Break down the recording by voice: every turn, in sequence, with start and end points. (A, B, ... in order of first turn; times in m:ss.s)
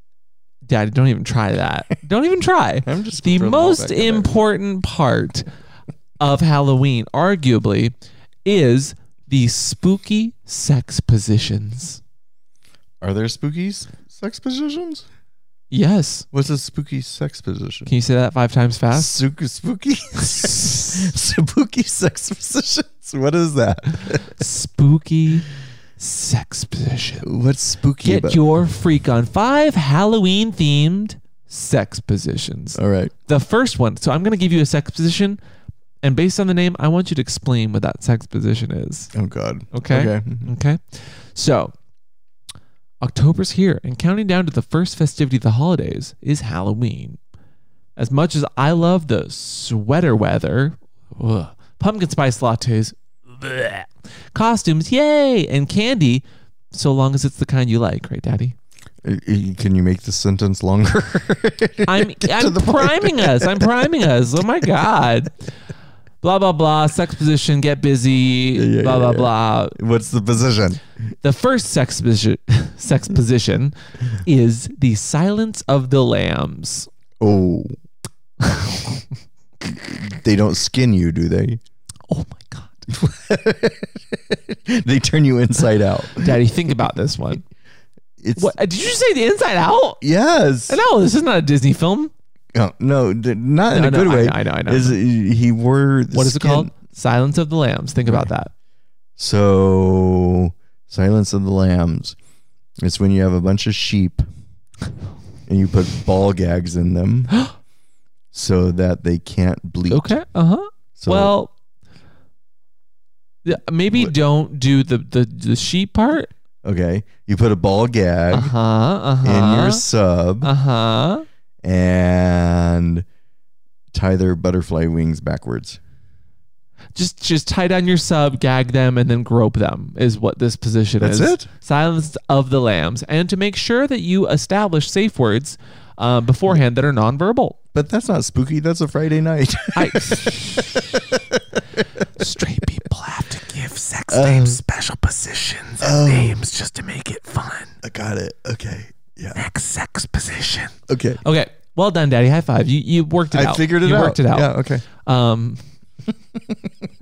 0:00.7-0:05.5 A
0:02.8-0:04.3 B
0:06.2-0:07.9 A
0:08.4-0:12.0 A
0:13.0-0:15.1 B
0:15.7-0:16.3 A
0:16.3-0:17.9 B
0:17.9-0:19.2 A
0:18.9-0:24.4 B
0:24.2-0:27.3 A
0:27.2-0:28.4 B
0:28.0-0:35.4 A
0:32.8-0:33.1 B
0:36.0-0:39.1 A
0:39.1-0:40.5 B
0:39.7-0:41.7 A
0:43.0-0:47.2 A
0:48.0-0:58.6 A
0:59.0-1:03.9 B
1:01.9-1:05.4 A
1:06.2-1:09.8 A
1:08.6-1:10.8 B
1:11.2-1:16.9 A
1:17.2-1:17.8 B
1:18.4-1:19.0 A
1:19.6-1:21.6 B
1:22.1-1:22.8 A
1:22.9-1:26.4 B
1:26.1-1:27.4 A
1:28.2-1:28.6 B
1:28.4-1:30.0 A
1:30.0-1:30.8 B
1:30.7-1:32.1 A
1:32.5-1:36.7 B
1:33.7-1:35.0 A
1:36.1-1:38.5 A
1:38.0-1:38.3 B
1:39.2-1:42.2 B
1:42.8-1:44.2 B
1:45.5-1:47.4 B
1:48.3-1:50.2 B
1:49.9-1:51.5 A
1:51.0-1:51.3 B
1:53.4-1:56.3 A
1:56.6-1:58.5 B
1:58.3-1:59.8 A
1:59.2-2:00.5 B
2:00.4-2:01.2 A
2:01.6-2:03.1 B
2:03.9-2:05.8 B
2:07.0-2:17.6 A
2:11.0-2:11.5 B
2:17.7-2:21.8 B
2:19.8-2:20.8 A
2:22.2-2:27.8 A
2:24.1-2:24.6 B
2:25.8-2:26.4 B
2:27.8-2:29.4 B
2:29.4-2:35.6 A
2:30.9-2:31.2 B
2:33.3-2:34.8 B
2:36.4-2:36.9 B